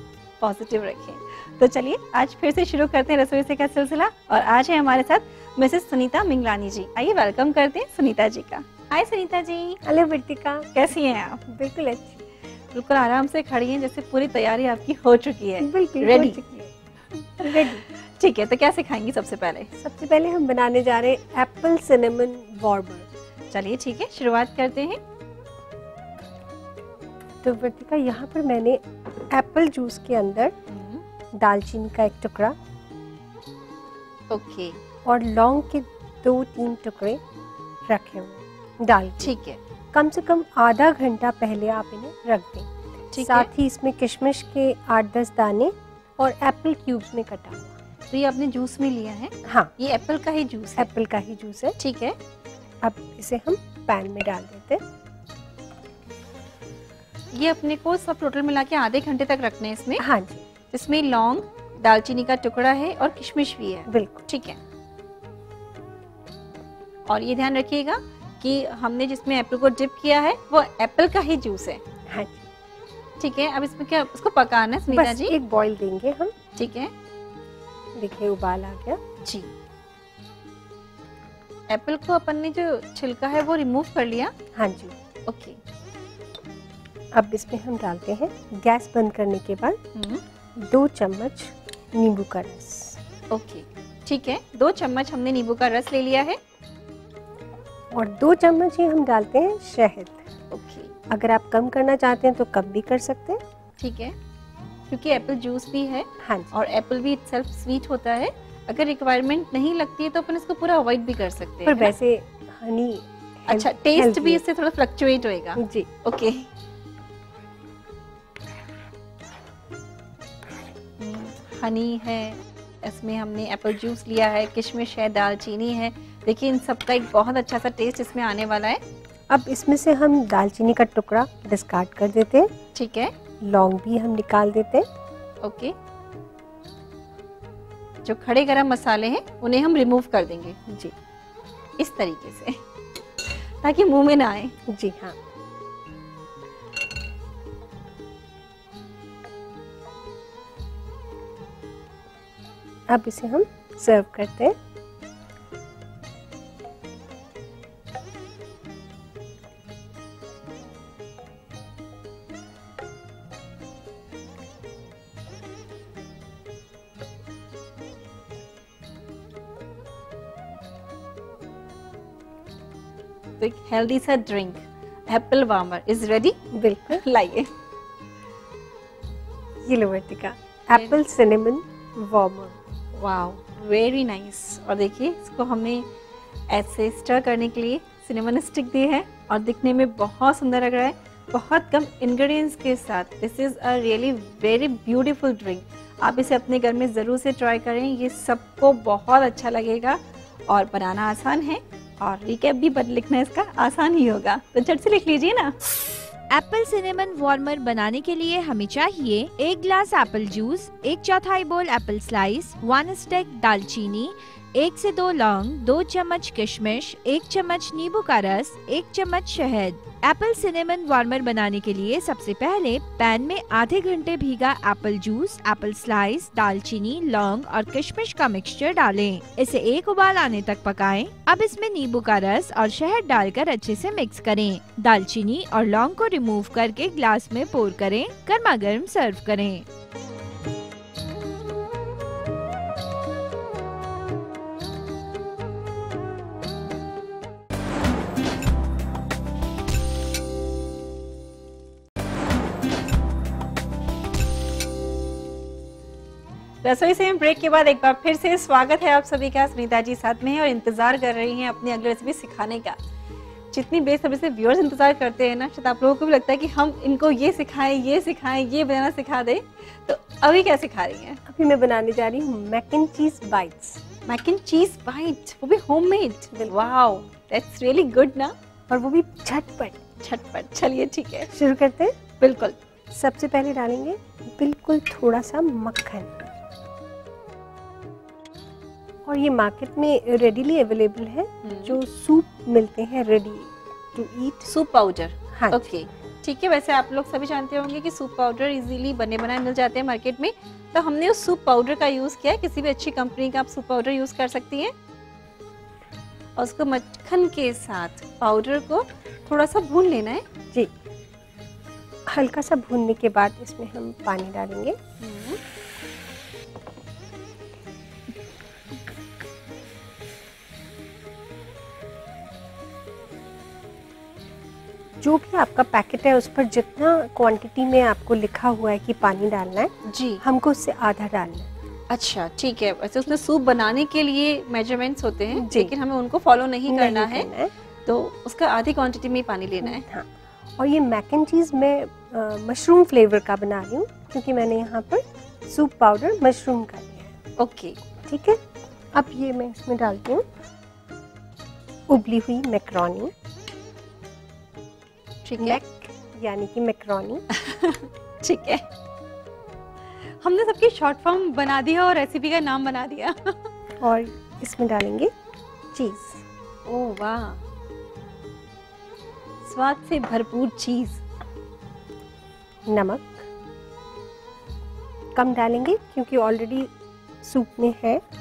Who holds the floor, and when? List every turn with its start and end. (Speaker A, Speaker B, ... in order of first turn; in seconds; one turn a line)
Speaker A: 0.4-9.8
Speaker B: 9.8-10.7
Speaker A: 10.7-11.4
Speaker B: 11.5-12.2
Speaker A: 12.7-16.7
Speaker B: 15.6-16.5
Speaker A: 17.4-19.7
Speaker B: 17.4-17.8
Speaker B: 19.8-23.1
Speaker A: 23.5-25.0
Speaker B: 27.4-30.5
Speaker A: 30.7-31.0
Speaker B: 31.4-32.6
Speaker A: 34.3-34.8
Speaker B: 35.0-37.2
Speaker B: 37.9-39.3
Speaker A: 39.2-39.6
Speaker B: 39.9-47.8
Speaker A: 43.1-43.5
Speaker A: 48.1-50.9
Speaker B: 49.4-49.7
Speaker B: 50.8-51.8
Speaker A: 51.8-52.1
Speaker B: 52.8-54.8
Speaker A: 57.3-60.0
Speaker B: 60.0-60.4
Speaker A: 60.7-64.6
Speaker B: 63.9-64.2
Speaker A: 67.1-71.8
Speaker B: 72.1-72.5
Speaker A: 73.2-75.3
Speaker B: 74.9-76.3
Speaker A: 76.5-76.9
Speaker B: 78.0-79.0
Speaker A: 79.2-79.5
Speaker A: 81.7-84.3
Speaker B: 84.5-84.9
Speaker A: 85.3-85.6
Speaker B: 87.2-89.8
Speaker A: 89.9-90.2
Speaker B: 90.6-93.0
Speaker A: 93.3-96.4
Speaker B: 97.9-100.2
Speaker A: 100.5-100.9
Speaker B: 101.1-103.4
Speaker A: 103.8-104.1
Speaker A: 104.9-111.9
Speaker B: 106.2-106.5
Speaker B: 111.6-114.4
Speaker A: 113.5-116.5
Speaker B: 115.6-115.9
Speaker A: 121.0-128.8
Speaker B: 129.3-132.5
Speaker A: 132.7-133.1
Speaker B: 133.4-134.8
Speaker A: 135.4-135.7
Speaker A: 138.0-140.6
Speaker A: 141.8-142.6
Speaker A: 143.6-144.5
Speaker B: 144.7-145.2
Speaker B: 152.9-154.5
Speaker A: 173.4-177.5
Speaker B: 176.5-177.0
Speaker B: 179.7-182.6
Speaker A: 182.9-185.9
Speaker A: 186.5-205.5
Speaker C: 206.3-239.7
Speaker A: 256.6-262.8
Speaker A: 263.5-271.2
Speaker B: 271.3-273.8
Speaker A: 274.1-278.3
Speaker B: 278.7-279.8
Speaker A: 280.0-281.3
Speaker B: 281.3-281.9
Speaker A: 282.2-282.6
Speaker B: 282.9-286.2
Speaker B: 289.1-294.4
Speaker A: 291.4-291.8
Speaker A: 294.4-304.7
Speaker B: 295.3-295.7
Speaker A: 306.4-310.2
Speaker B: 312.1-314.8
Speaker A: 315.0-315.4
Speaker B: 325.0-331.5
Speaker A: 329.9-330.2
Speaker A: 331.9-337.3
Speaker B: 335.3-335.7
Speaker B: 336.7-337.5
Speaker A: 337.9-339.8
Speaker B: 339.6-340.1
Speaker B: 340.6-347.1
Speaker A: 347.4-347.8
Speaker B: 348.1-348.4
Speaker B: 348.9-350.2
Speaker B: 351.9-353.1
Speaker A: 355.2-355.6
Speaker B: 355.4-357.2
Speaker A: 357.3-358.6
Speaker A: 360.2-363.4
Speaker B: 363.8-365.1
Speaker B: 365.7-366.2
Speaker A: 366.6-367.4
Speaker A: 369.4-371.0
Speaker B: 372.7-373.2
Speaker B: 375.1-378.0